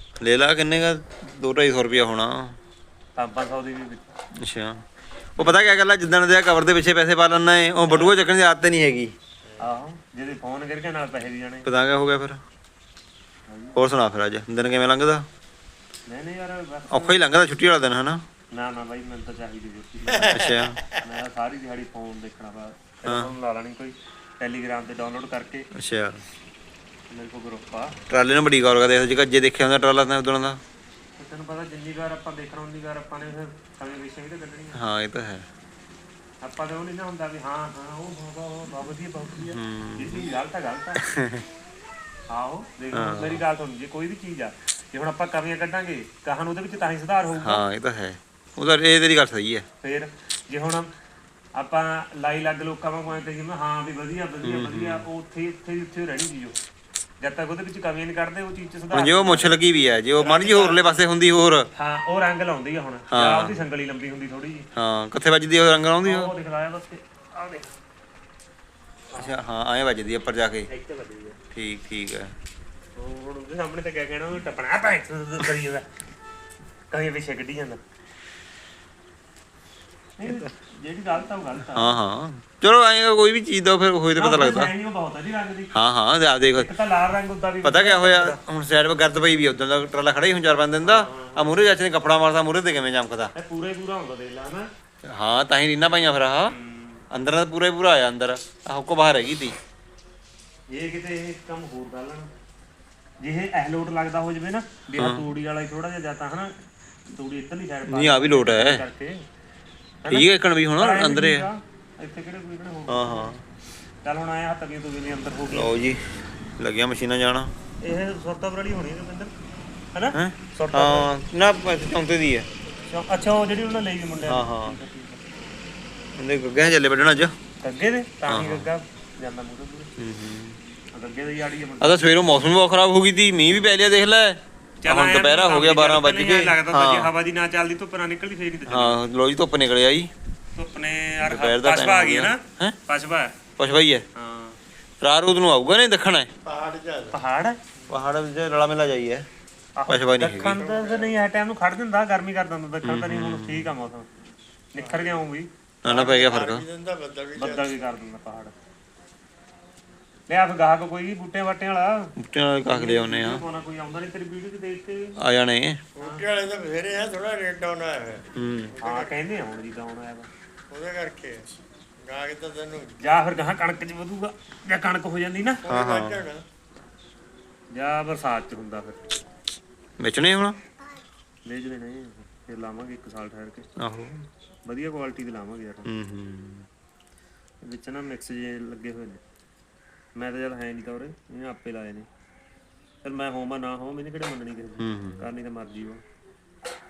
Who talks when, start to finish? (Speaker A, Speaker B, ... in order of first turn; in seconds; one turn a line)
Speaker A: 0.2-2.6
Speaker B: 3.1-4.1
Speaker A: 4.4-4.8
Speaker A: 5.3-9.1
Speaker B: 7.8-8.1
Speaker B: 9.6-11.7
Speaker A: 11.6-12.4
Speaker B: 13.5-13.8
Speaker A: 13.8-15.2
Speaker B: 16.1-17.2
Speaker A: 16.9-18.2
Speaker B: 18.5-25.7
Speaker A: 20.3-20.8
Speaker A: 23.1-23.3
Speaker A: 25.7-26.2
Speaker B: 27.1-28.0
Speaker A: 28.1-30.6
Speaker B: 31.2-34.8
Speaker A: 34.7-35.5
Speaker B: 36.4-41.0
Speaker A: 39.4-40.3
Speaker A: 41.0-41.4
Speaker B: 42.3-47.6
Speaker A: 42.9-43.4
Speaker A: 47.4-49.6
Speaker B: 49.8-50.9
Speaker B: 51.5-56.5
Speaker A: 54.4-55.0
Speaker B: 57.2-59.6
Speaker A: 58.9-61.7
Speaker C: 60.2-61.0
Speaker B: 61.7-64.7
Speaker A: 63.1-63.6
Speaker A: 64.8-66.3
Speaker B: 66.0-67.7
Speaker A: 69.1-70.7
Speaker B: 70.7-71.4
Speaker A: 71.5-72.3
Speaker B: 73.0-75.9
Speaker B: 76.9-77.8
Speaker B: 80.2-82.0
Speaker A: 81.7-84.7
Speaker B: 84.2-85.7
Speaker A: 85.7-86.7
Speaker B: 86.5-88.4
Speaker A: 87.6-93.3
Speaker B: 90.8-91.7
Speaker B: 93.3-94.7
Speaker A: 95.0-96.5
Speaker B: 96.5-97.0
Speaker A: 97.1-99.5
Speaker B: 100.7-102.3
Speaker B: 103.2-106.5
Speaker A: 105.0-105.2
Speaker B: 107.1-109.2
Speaker A: 107.9-108.8
Speaker B: 110.0-113.3
Speaker A: 110.1-111.5
Speaker A: 112.9-113.4
Speaker B: 114.0-115.8
Speaker A: 115.5-116.1
Speaker A: 116.6-117.5
Speaker B: 117.8-119.3
Speaker B: 119.9-121.1
Speaker A: 120.1-122.5
Speaker B: 122.9-125.2
Speaker A: 124.2-124.8
Speaker A: 126.2-127.3
Speaker B: 127.6-129.9
Speaker A: 128.3-128.7
Speaker A: 130.0-130.6
Speaker B: 130.9-132.1
Speaker A: 131.8-137.1
Speaker B: 134.8-139.0
Speaker A: 138.7-140.1
Speaker B: 140.6-143.3
Speaker A: 141.2-142.8
Speaker A: 143.6-144.0
Speaker B: 144.1-144.6
Speaker A: 145.0-146.3
Speaker C: 146.4-147.2
Speaker B: 147.1-147.6
Speaker A: 147.9-149.3
Speaker B: 149.8-154.1
Speaker A: 149.9-150.6
Speaker C: 150.5-151.2
Speaker A: 152.8-153.7
Speaker B: 154.7-155.5
Speaker C: 154.8-155.0
Speaker A: 155.8-156.6
Speaker C: 155.8-157.7
Speaker B: 157.3-158.5
Speaker B: 160.3-162.1
Speaker A: 162.2-163.4
Speaker B: 162.7-165.2
Speaker A: 165.2-165.8
Speaker C: 165.9-169.1
Speaker B: 166.0-166.2
Speaker A: 168.3-168.7
Speaker B: 168.8-170.3
Speaker C: 170.7-173.0
Speaker B: 173.0-175.6
Speaker C: 175.6-176.4
Speaker A: 175.7-176.3
Speaker B: 177.7-179.0
Speaker A: 180.0-180.6
Speaker B: 181.4-183.7
Speaker A: 183.8-184.2
Speaker B: 184.6-185.9
Speaker A: 185.8-186.7
Speaker B: 187.6-189.2
Speaker B: 190.2-192.1
Speaker B: 193.0-196.0
Speaker A: 194.8-195.2